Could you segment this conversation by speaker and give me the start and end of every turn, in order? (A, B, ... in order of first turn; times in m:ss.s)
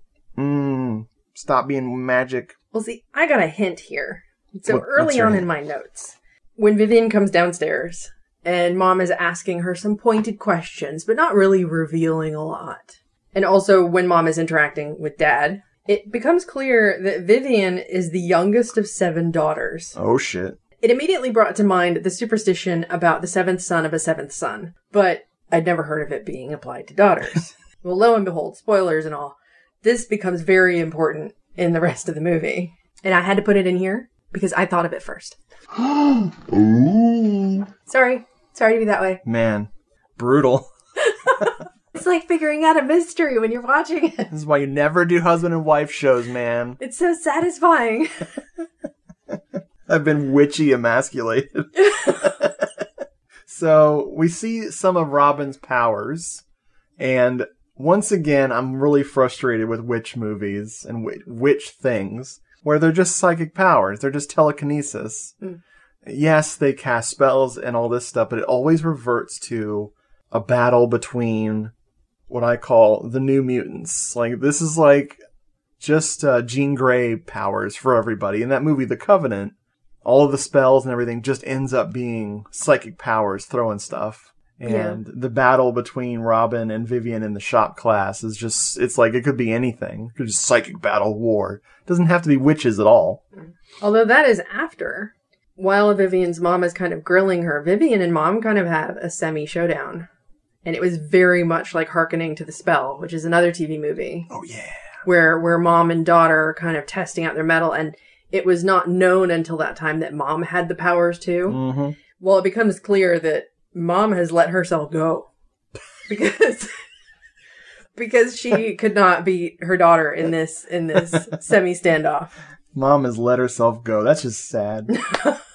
0:00.4-0:02.6 A
0:02.7-0:20.0 B
0:04.7-0:05.5 A
0:20.0-0:20.6 A
0:20.8-0:35.4 B
0:37.9-0:39.2 B
0:39.2-0:40.7 A
0:41.9-0:44.3 B
0:44.3-0:46.8 A
0:46.8-0:48.3 B
0:49.9-0:52.8 A
0:53.5-0:56.4 A
0:57.0-1:05.4 A
1:06.0-1:11.7 A
1:12.3-1:15.2 A
1:15.8-1:33.2 A
1:24.6-1:25.0 B
1:33.4-1:40.1 B
1:40.6-1:44.3 B
1:44.3-1:45.0 A
1:45.0-1:51.6 B
1:51.5-1:52.0 A
1:52.2-1:55.3 B
1:56.1-1:56.7 B
1:58.0-2:02.3 B
2:02.7-2:04.9 A
2:04.9-2:05.4 B